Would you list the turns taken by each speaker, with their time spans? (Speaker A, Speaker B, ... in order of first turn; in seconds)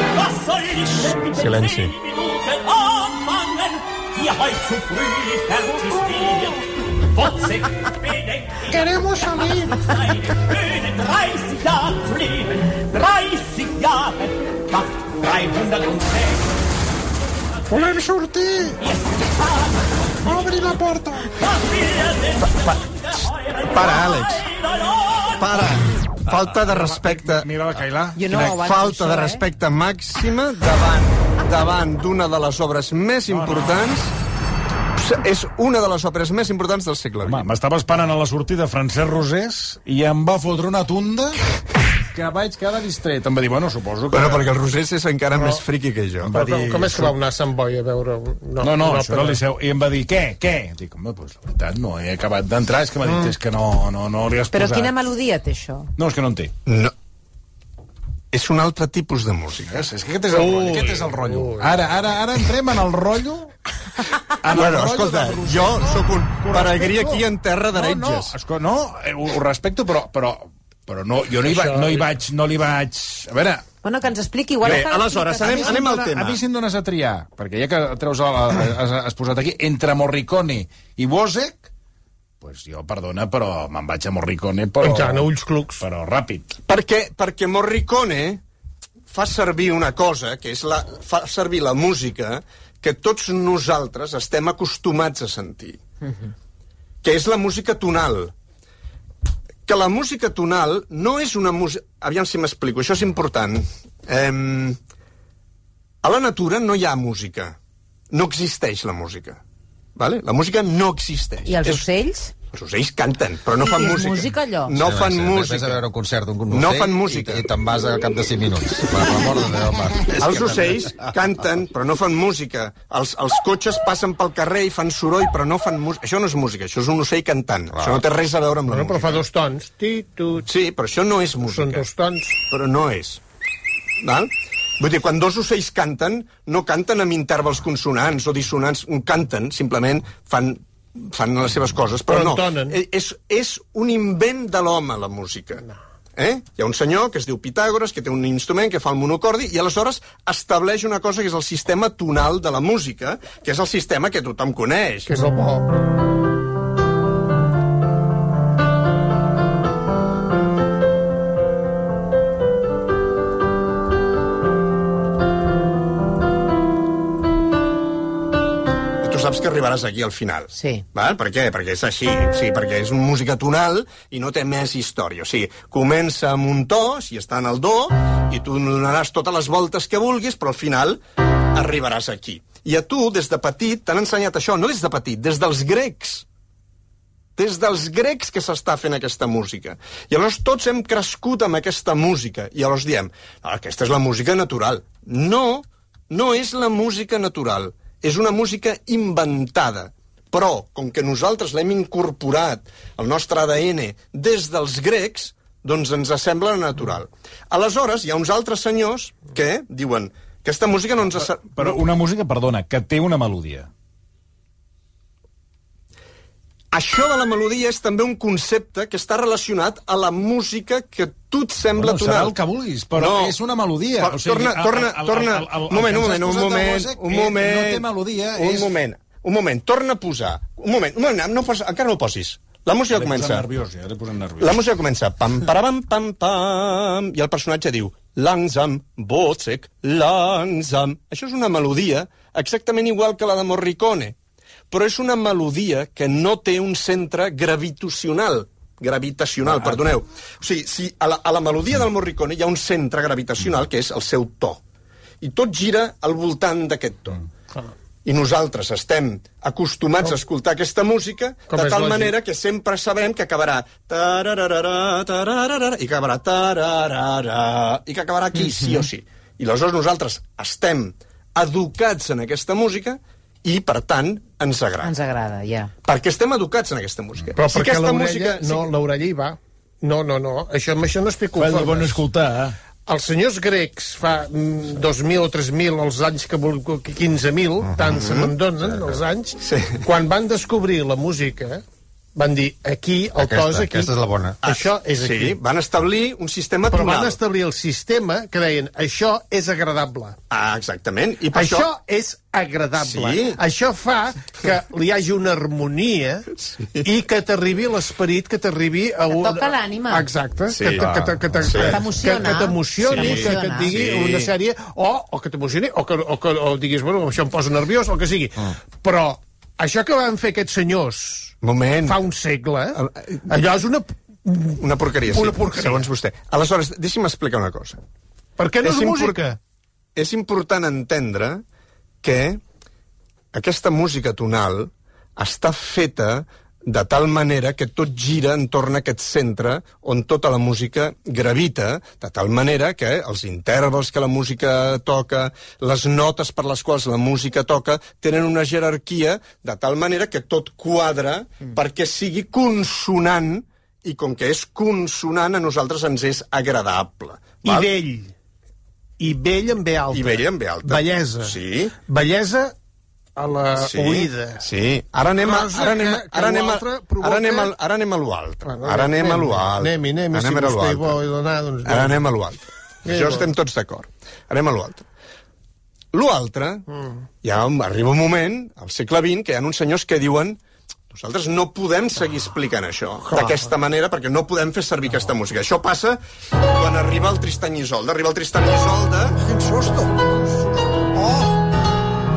Speaker A: 0.1-16.5, 18.8-20.3, 21.3-25.6
Speaker B: 1.3-1.9, 22.4-22.8, 23.7-24.5, 25.4-27.5, 28.3-34.1, 34.9-37.5, 44.1-46.3, 56.6-56.9, 58.3-59.9, 64.5-68.3, 74.6-76.4, 86.7-88.4, 89.1-95.8, 97.0-98.3, 99.7-104.8, 106.0-107.6, 108.1-109.4, 110.0-111.9, 112.5-115.8, 116.5-117.5, 120.1-129.2, 130.4-131.9, 132.5-133.2, 134.0-145.6, 146.2-155.1, 169.0-181.0, 181.5-186.3, 187.4-211.8, 216.7-222.3, 222.9-223.4, 224.0-233.5, 234.4-244.2, 244.7-254.6, 255.2-257.2, 258.1-274.9, 275.8-278.7, 287.8-288.3, 289.4-289.8, 294.4-297.2, 300.3-301.7, 302.8-303.4, 306.4-306.9, 310.5-311.9, 312.8-314.3, 321.4-322.0, 322.7-323.4, 324.6-327.8, 328.6-329.2, 329.9-331.4, 332.0-332.4, 333.3-357.7, 359.9-361.7, 363.6-371.0, 371.6-374.8, 375.9-376.7, 377.2-380.4, 380.9-389.2
Speaker C: 8.7-9.9, 17.7-18.8, 20.2-21.3, 26.3-28.6, 33.3-33.8, 37.3-41.4, 42.1-44.5, 46.2-47.1, 48.6-54.9, 56.0-56.5, 59.7-63.5, 64.0-73.6, 75.4-81.7, 82.4-85.3, 85.8-86.5, 211.2-213.7, 221.8-228.7, 232.9-234.6, 281.4-282.6, 389.2-391.3
Speaker D: 28.1-29.4, 54.5-55.9, 73.8-75.8, 111.5-112.3, 113.6-114.8, 170.5-170.8, 274.8-275.7, 309.1-310.1, 311.5-313.8
Speaker E: 45.3-45.6, 46.3-49.4, 53.0-53.3, 60.3-61.8, 71.4-72.1, 84.8-85.8, 128.7-130.5, 131.5-132.4, 142.1-142.8, 155.1-155.7, 261.5-262.1, 277.4-282.0, 282.9-291.6, 292.1-293.9, 294.4-295.4, 296.7-300.2, 301.3-306.3, 306.8-325.9, 328.4-329.4, 357.4-358.1, 359.0-362.5, 363.2-364.4, 365.2-367.5, 368.4-372.0, 372.9-373.3, 383.1-383.5
Speaker F: 114.8-120.9, 127.8-128.0, 293.2-294.4